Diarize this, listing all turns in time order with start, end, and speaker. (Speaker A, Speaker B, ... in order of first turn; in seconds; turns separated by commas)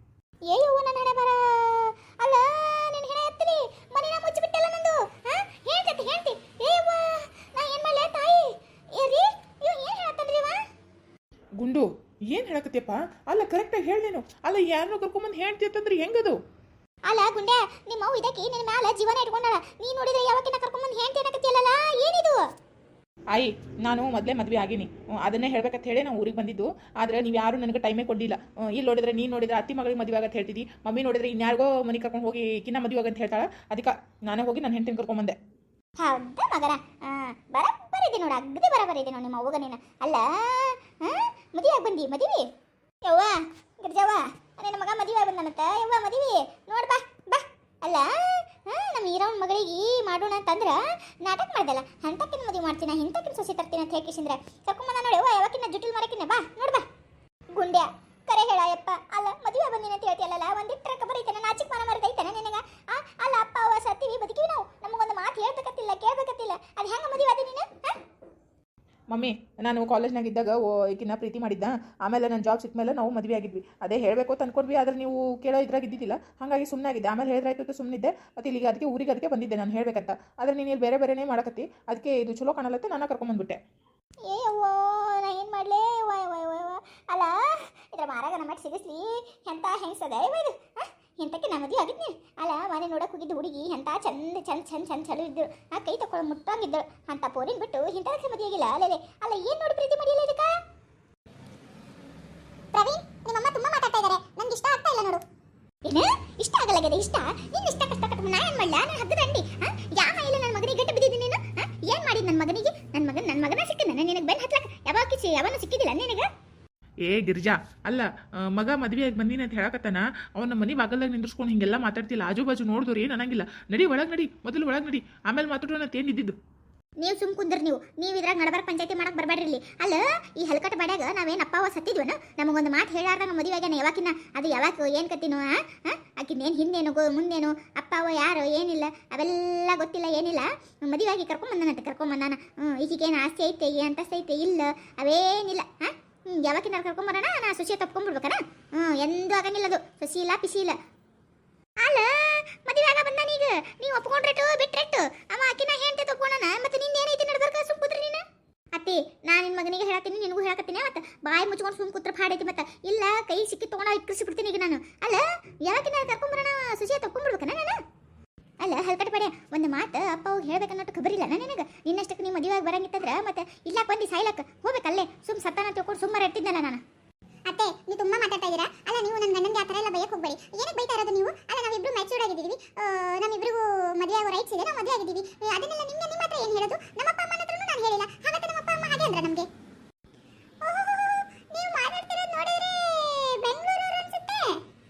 Speaker A: 0.5-10.6, Speaker B: 11.6-16.4, Speaker A: 17.1-22.4, Speaker B: 23.3-35.4, Speaker A: 36.0-42.5, Speaker A: 43.0-56.9, Speaker A: 57.5-68.0, Speaker B: 69.1-83.6, Speaker A: 84.3-100.5, Speaker C: 102.7-105.2, Speaker A: 105.9-116.3, Speaker B: 117.0-126.4, Speaker A: 127.0-150.8, Speaker A: 151.8-158.2, Speaker A: 158.8-167.8, Speaker A: 168.6-176.8, Speaker C: 177.5-189.5, Speaker C: 190.6-194.6